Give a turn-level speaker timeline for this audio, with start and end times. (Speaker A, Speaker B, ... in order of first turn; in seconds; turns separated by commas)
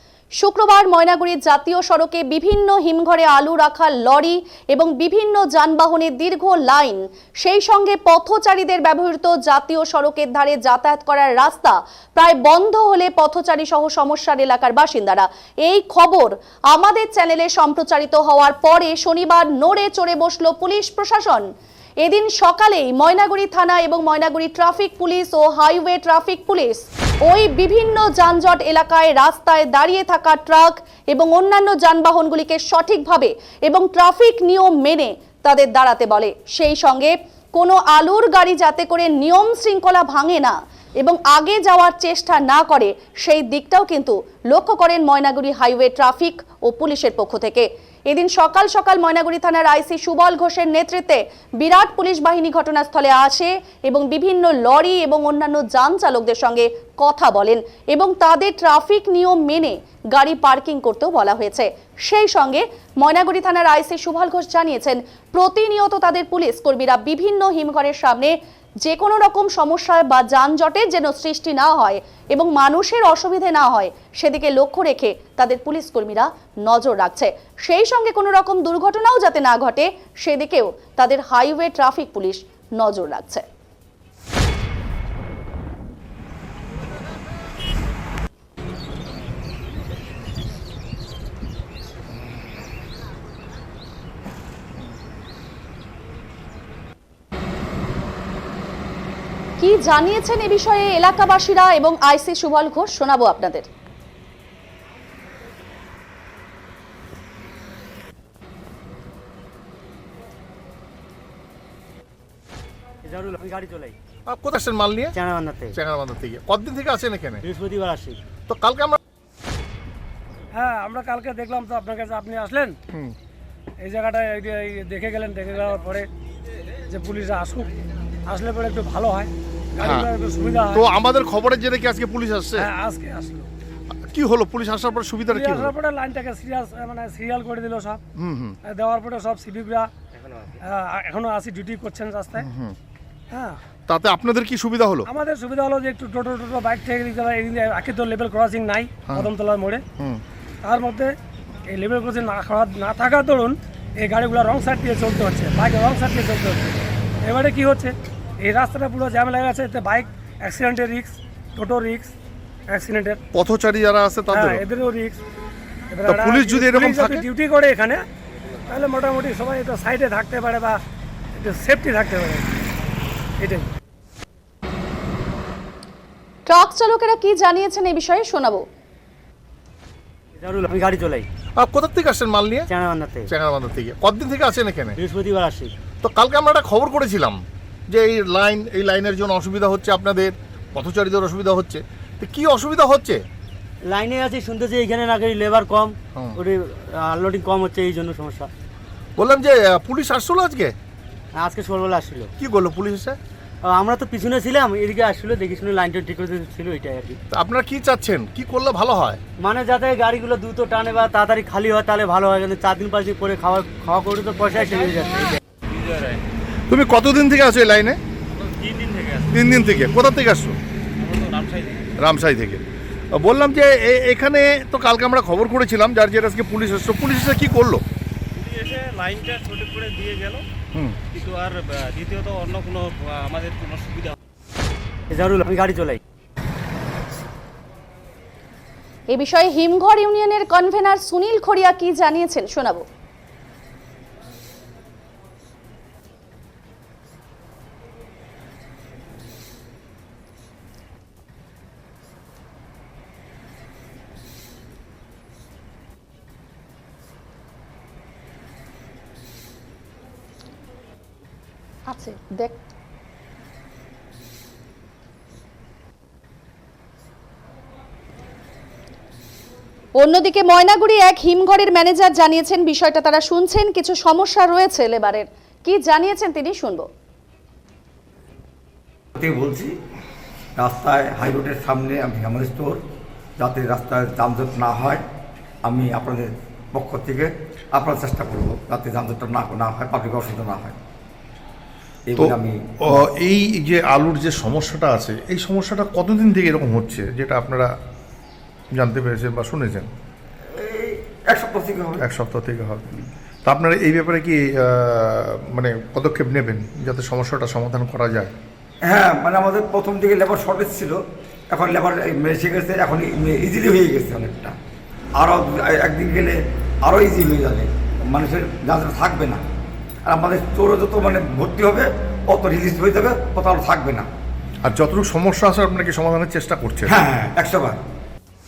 Speaker A: 0.4-21.4, Speaker A: 22.0-83.4, Speaker A: 99.6-103.7, Speaker B: 113.0-113.9, Speaker C: 114.3-115.2, Speaker B: 115.1-115.8, Speaker C: 115.7-117.4, Speaker B: 117.4-118.2, Speaker C: 118.5-119.0, Speaker D: 120.5-122.8, Speaker C: 122.9-123.2, Speaker D: 123.8-126.1, Speaker D: 126.9-127.7, Speaker D: 128.3-130.8, Speaker C: 129.8-130.1, Speaker C: 130.7-132.7, Speaker D: 132.6-133.5, Speaker C: 133.9-135.7, Speaker D: 135.3-138.0, Speaker C: 138.2-138.6, Speaker D: 138.7-139.9, Speaker D: 140.6-142.5, Speaker C: 142.3-142.8, Speaker D: 143.3-143.6, Speaker C: 143.9-145.1, Speaker D: 145.1-149.8, Speaker D: 150.6-151.1, Speaker D: 151.7-162.1, Speaker D: 162.7-163.2, Speaker C: 163.3-164.6, Speaker D: 164.3-165.2, Speaker D: 165.9-168.0, Speaker C: 166.1-167.2, Speaker D: 168.7-170.8, Speaker D: 171.4-172.5, Speaker D: 173.4-173.7, Speaker A: 176.5-178.6, Speaker B: 180.4-181.2, Speaker C: 181.6-182.7, Speaker B: 182.7-183.3, Speaker C: 183.2-185.0, Speaker B: 184.9-185.7, Speaker C: 186.0-193.2, Speaker B: 193.8-198.5, Speaker C: 199.2-200.7, Speaker B: 201.4-202.3, Speaker C: 202.4-203.2, Speaker B: 203.7-207.2, Speaker C: 207.3-209.2, Speaker B: 209.4-215.4, Speaker E: 215.7-216.2, Speaker C: 216.7-218.0, Speaker E: 218.3-219.3, Speaker C: 219.3-220.6, Speaker E: 221.0-221.9, Speaker C: 222.0-227.8, Speaker E: 228.3-230.4, Speaker C: 230.7-231.0, Speaker E: 231.1-234.1, Speaker B: 235.1-236.0, Speaker A: 239.1-242.8, Speaker A: 261.9-262.6, Speaker A: 270.0-276.9, Speaker F: 279.1-279.7, Speaker F: 280.6-282.8, Speaker F: 283.4-285.0, Speaker F: 285.6-290.8, Speaker F: 292.1-293.0, Speaker C: 292.2-297.7, Speaker C: 298.8-299.9, Speaker F: 300.5-302.0, Speaker C: 302.0-308.3, Speaker F: 308.8-311.0, Speaker F: 311.5-314.5, Speaker F: 315.2-319.4, Speaker F: 320.1-324.1, Speaker C: 324.6-326.9, Speaker F: 326.9-327.8